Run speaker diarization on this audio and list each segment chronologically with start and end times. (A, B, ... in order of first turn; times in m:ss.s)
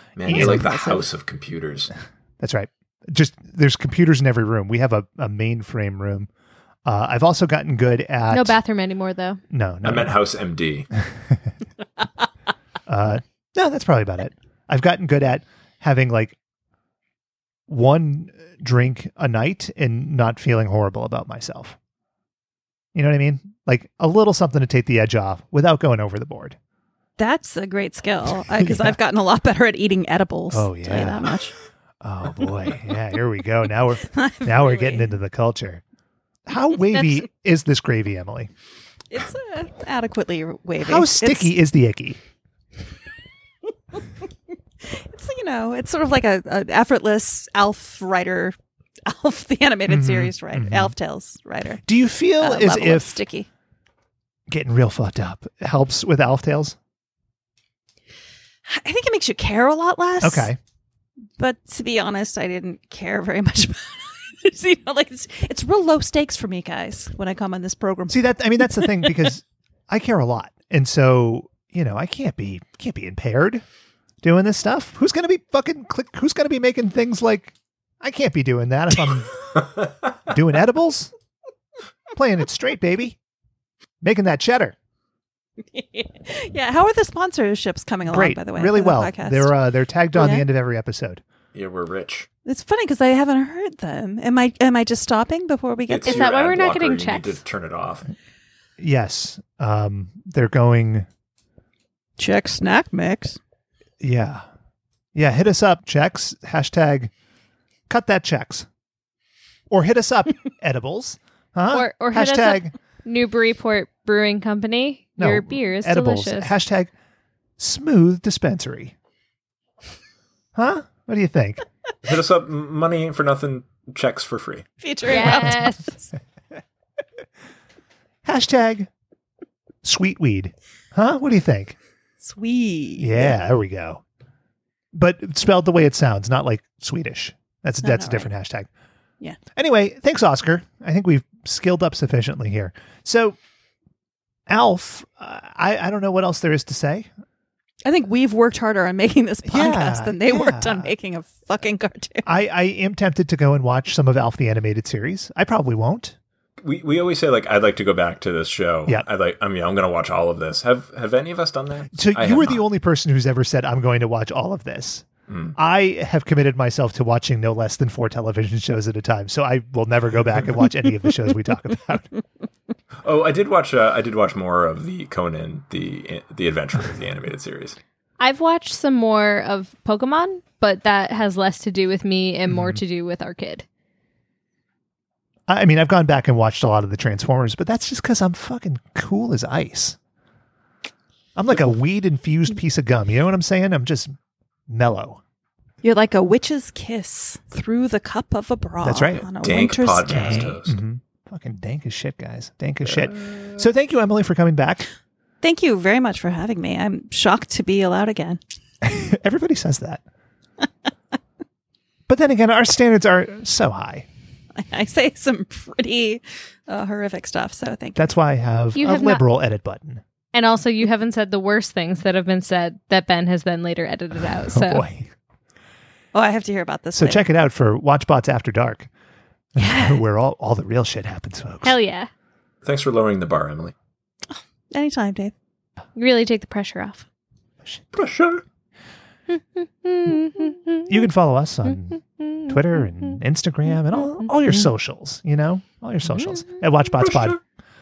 0:00.2-0:01.9 A
0:00.3-0:00.7 B
0:00.3-0:01.0 C
0:02.4-0:06.3 B
0:06.8-0:08.6 B
0:08.3-0:09.4 D
0:09.5-0:10.1 B
0:09.8-0:10.9 A
0:12.9-0:16.4 B
0:17.7-0:21.8 B
0:22.9-0:26.6 B
0:27.2-0:31.5 C
0:28.6-0:29.0 B
0:30.5-0:31.3 B
0:32.0-0:35.8 B
0:34.0-0:35.1 C
0:36.5-0:38.5 B
0:39.1-0:41.5 C
0:40.8-0:42.2 B
0:44.8-0:51.8 C
0:49.9-0:50.9 B
0:51.8-0:53.2 B
0:52.4-0:53.5 C
0:54.5-0:56.8 B
0:58.6-1:00.5 C
1:00.2-1:00.6 B
1:01.4-1:09.1 C
1:08.1-1:13.6 B
1:14.2-1:19.6 B
1:20.3-1:21.1 B
1:22.1-1:23.2 B
1:24.0-1:24.7 B
1:25.7-1:29.5 C
1:28.0-1:31.2 B
1:30.1-1:30.4 C
1:31.5-1:32.3 A
1:32.4-1:36.2 C
1:35.9-1:38.1 A
1:36.0-1:37.4 D
1:38.8-1:41.1 B
1:42.2-1:43.4 C
1:44.0-1:44.4 B
1:45.1-1:47.1 B
1:47.9-1:48.7 B
1:49.7-1:52.7 B
1:51.7-1:56.5 D
1:55.2-1:56.9 B
1:57.6-1:58.9 B
2:00.5-2:01.6 B
2:02.0-2:04.6 A
2:04.8-2:05.7 C
2:05.0-2:05.9 D
2:08.2-2:08.9 B
2:09.8-2:11.8 B
2:12.2-2:13.3 C
2:13.0-2:14.0 B
2:14.9-2:18.7 B
2:17.8-2:18.3 C
2:19.6-2:23.4 B
2:24.5-2:27.1 B
2:27.8-2:32.3 C
2:29.5-2:30.9 B
2:32.2-2:36.2 B
2:36.6-2:42.6 A
2:41.9-2:52.1 B
2:45.3-2:45.6 A
2:53.0-2:57.8 A
2:58.2-3:03.6 D
3:02.5-3:02.8 B
3:05.5-3:10.0 B
3:11.4-3:14.1 B
3:14.7-3:15.2 B
3:15.8-3:20.5 C
3:18.8-3:19.2 B
3:19.4-3:20.8 A
3:20.0-3:24.9 B
3:22.9-3:23.5 A
3:25.4-3:28.4 C
3:28.8-3:30.0 B
3:32.1-3:34.1 B
3:34.6-3:38.1 C
3:38.0-3:40.0 B
3:38.8-3:39.2 D
3:40.3-3:44.8 D
3:44.5-3:45.1 B
3:46.1-3:47.2 C
3:46.9-3:48.9 B
3:49.5-3:51.8 B
3:49.6-3:50.0 C
3:51.6-3:52.1 D
3:52.6-3:53.7 A
3:54.3-3:55.3 C
3:56.0-3:57.0 D
3:57.9-3:58.4 A
3:59.3-4:00.8 D
4:00.9-4:07.4 B
4:07.0-4:07.4 A